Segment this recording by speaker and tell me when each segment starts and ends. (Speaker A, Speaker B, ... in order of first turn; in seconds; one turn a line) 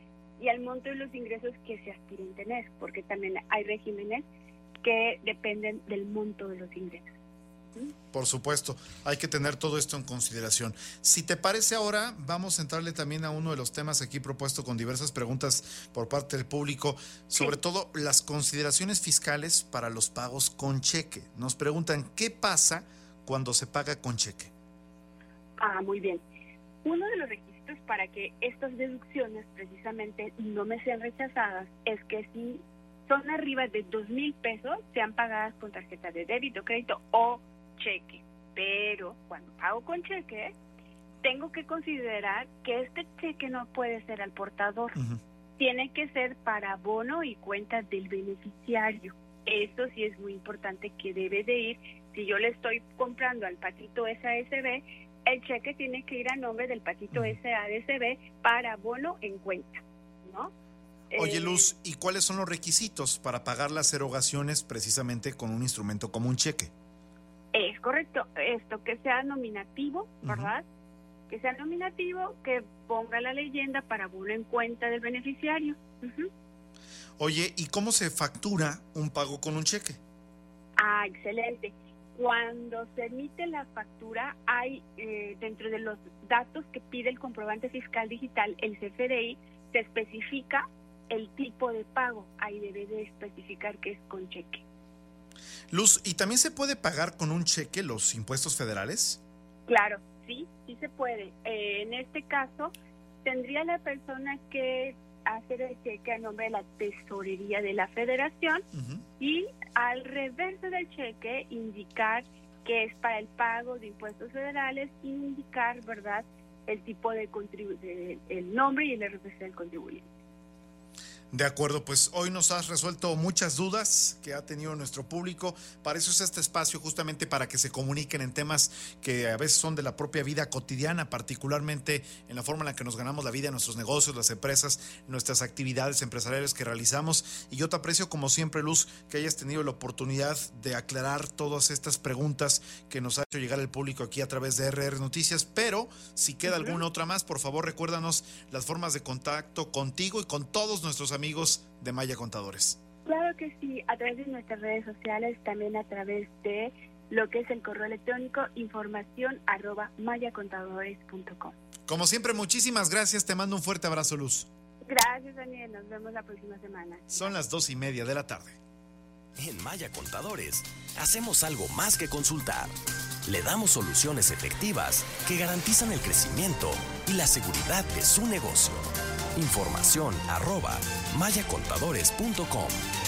Speaker A: 0.4-4.2
Speaker A: 4.8-7.1
Speaker B: 8.1-24.5
Speaker A: 25.6-26.2
Speaker A: 26.8-40.5
Speaker A: 41.2-45.0
Speaker B: 44.9-45.2
Speaker A: 45.6-60.5
Speaker B: 57.1-57.4
Speaker A: 61.1-61.7
Speaker B: 61.1-66.7
Speaker A: 67.5-70.6
Speaker B: 70.2-70.5
Speaker A: 71.3-76.3
Speaker B: 77.2-80.0
Speaker A: 80.8-94.6
Speaker B: 95.7-99.2
Speaker A: 99.7-102.7
Speaker A: 103.2-108.7
Speaker B: 108.7-109.0
Speaker A: 109.2-120.1
Speaker B: 121.3-152.8
Speaker A: 146.5-146.8
Speaker A: 153.1-161.5
Speaker B: 161.9-164.5
Speaker A: 164.8-167.3
Speaker B: 167.1-168.6
Speaker C: 169.4-172.7
Speaker C: 173.2-182.8